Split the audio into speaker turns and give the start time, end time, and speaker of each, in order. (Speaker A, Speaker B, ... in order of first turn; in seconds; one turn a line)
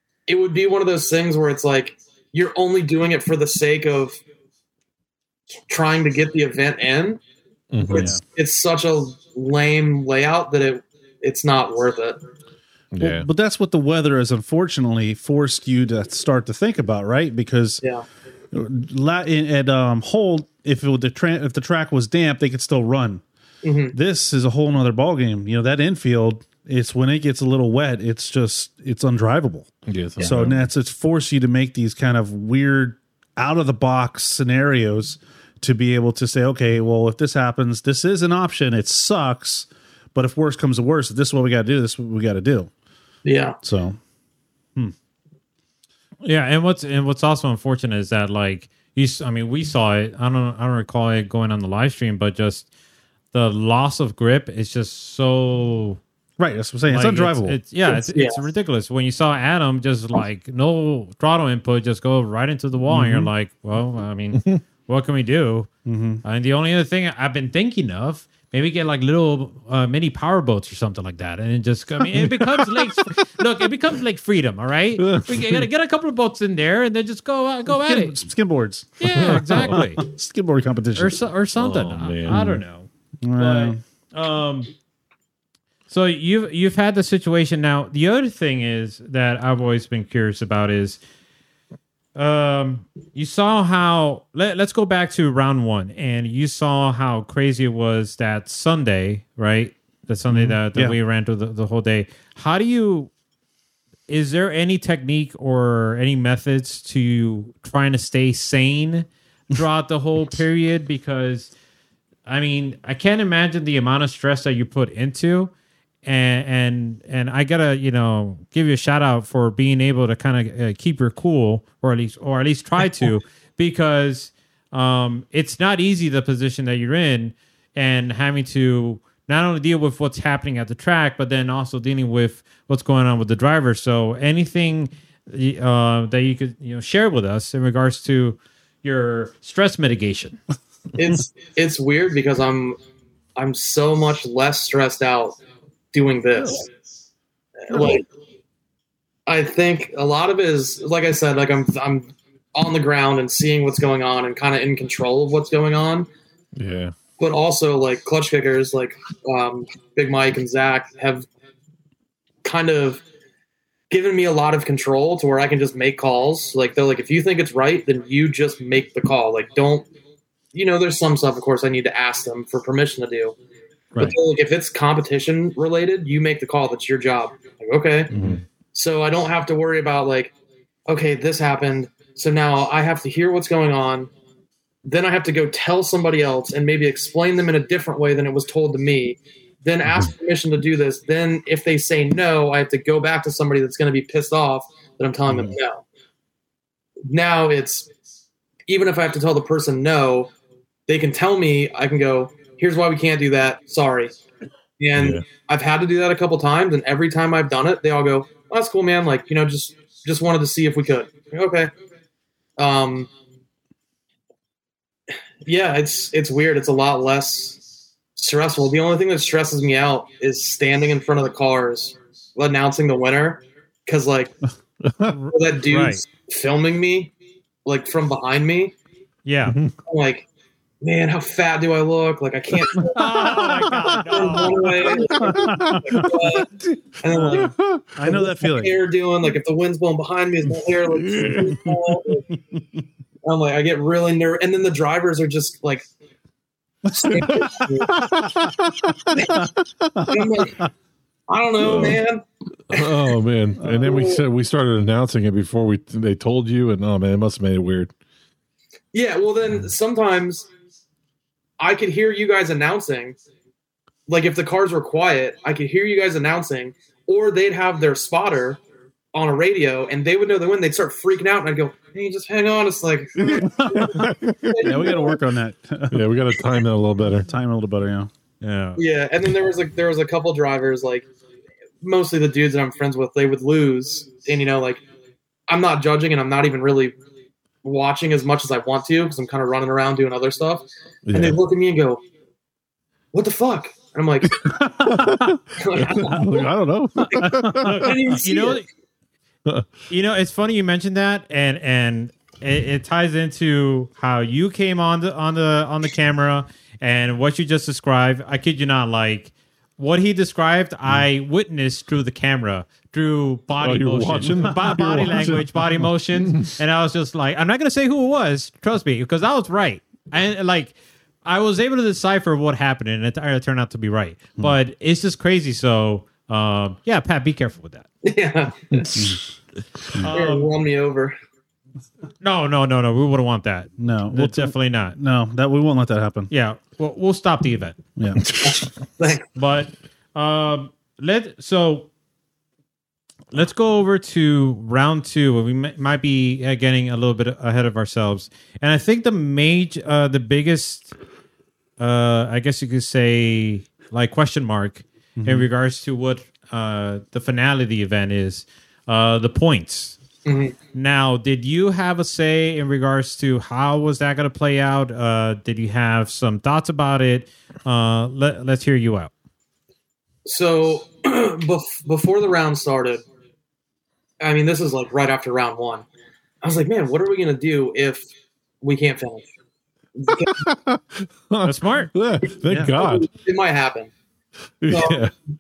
Speaker A: 0.3-4.2
Speaker A: 5.7-7.2
Speaker B: 7.7-8.1
Speaker A: 7.9-12.2
Speaker C: 7.9-8.2
Speaker B: 12.9-13.3
Speaker C: 13.0-17.8
Speaker C: 18.5-23.2
Speaker A: 23.6-23.9
Speaker C: 23.9-42.7
Speaker B: 29.9-30.7
Speaker A: 43.2-43.6
Speaker C: 43.6-44.0
Speaker D: 46.2-52.7
Speaker D: 53.3-56.0
Speaker C: 56.4-57.6
Speaker D: 56.9-65.7
Speaker A: 57.9-58.4
Speaker C: 62.9-63.3
Speaker C: 65.9-66.2
Speaker D: 66.2-78.2
Speaker B: 72.2-72.9
Speaker B: 75.0-75.6
Speaker C: 77.7-81.2
Speaker D: 79.0-80.0
Speaker B: 79.1-79.8
Speaker D: 81.0-84.7
Speaker B: 81.6-82.6
Speaker C: 83.2-83.8
Speaker D: 85.9-91.0
Speaker D: 92.2-103.1
Speaker C: 100.3-101.0
Speaker D: 104.1-111.5
Speaker D: 112.3-115.5
Speaker D: 116.0-140.4
Speaker A: 141.0-142.8
Speaker A: 143.4-145.4
Speaker A: 145.9-146.7
Speaker A: 147.6-148.1
Speaker A: 149.3-156.1
Speaker B: 156.6-156.9
Speaker A: 157.2-161.3
Speaker A: 162.4-163.0
Speaker A: 163.9-169.9
Speaker A: 170.5-173.4
Speaker A: 174.0-178.1
Speaker B: 178.1-178.4
Speaker A: 178.7-180.3
Speaker A: 180.9-184.1
Speaker A: 184.8-195.8
Speaker A: 197.1-197.9
Speaker A: 198.7-200.3
Speaker A: 200.9-204.2
Speaker A: 204.8-211.7
Speaker B: 204.9-205.2
Speaker A: 212.6-213.1
Speaker A: 215.4-217.6
Speaker A: 218.2-224.3
Speaker B: 224.8-225.2
Speaker D: 225.1-226.0
Speaker A: 225.3-227.1
Speaker A: 227.7-228.8
Speaker D: 229.2-229.6
Speaker B: 229.5-229.8
Speaker A: 229.9-230.3
Speaker A: 230.8-236.5
Speaker D: 232.9-235.0
Speaker C: 233.2-236.4
Speaker B: 235.2-236.2
Speaker A: 237.0-242.3
Speaker C: 237.1-238.8
Speaker B: 237.3-237.8
Speaker B: 240.8-241.8
Speaker C: 242.3-242.6
Speaker A: 243.2-245.8
Speaker A: 246.9-248.1
Speaker B: 247.1-249.4
Speaker C: 247.1-247.4
Speaker C: 249.3-250.3
Speaker A: 250.1-250.7
Speaker A: 251.3-252.9
Speaker B: 251.6-252.0
Speaker B: 252.7-257.9
Speaker A: 253.8-254.2
Speaker A: 258.9-260.5
Speaker A: 261.6-263.2
Speaker A: 264.1-268.6
Speaker A: 269.1-275.2
Speaker B: 273.2-274.9
Speaker C: 273.2-274.1
Speaker C: 274.6-276.0
Speaker B: 275.9-277.3
Speaker C: 277.2-278.1
Speaker D: 278.4-278.8
Speaker A: 278.8-281.1
Speaker A: 281.8-284.8
Speaker A: 285.5-286.9
Speaker A: 287.6-292.0
Speaker B: 291.1-291.4
Speaker A: 293.1-294.5
Speaker C: 294.4-295.4
Speaker B: 294.4-297.9
Speaker A: 295.6-296.5
Speaker C: 297.1-297.9
Speaker A: 297.1-298.6
Speaker D: 297.6-298.6
Speaker D: 299.9-327.9
Speaker B: 313.6-316.5
Speaker C: 314.5-315.1
Speaker A: 328.0-328.9
Speaker B: 328.7-329.1
Speaker C: 328.9-329.2
Speaker D: 330.0-330.5
Speaker A: 330.1-331.1
Speaker D: 332.2-335.0
Speaker C: 333.8-336.3
Speaker D: 336.3-337.8
Speaker C: 338.0-338.2
Speaker B: 338.2-338.6
Speaker A: 338.4-339.3
Speaker D: 339.4-341.9
Speaker D: 343.3-350.9
Speaker D: 351.8-360.0
Speaker C: 355.2-355.5
Speaker A: 360.2-360.5
Speaker D: 360.7-369.1
Speaker A: 370.3-373.0
Speaker A: 374.2-375.9
Speaker A: 376.4-378.1
Speaker A: 378.6-379.3
Speaker A: 380.0-380.4
Speaker B: 380.1-383.1
Speaker D: 381.4-381.9
Speaker C: 382.5-382.7
Speaker A: 382.7-383.9
Speaker B: 384.6-385.1
Speaker A: 384.7-385.1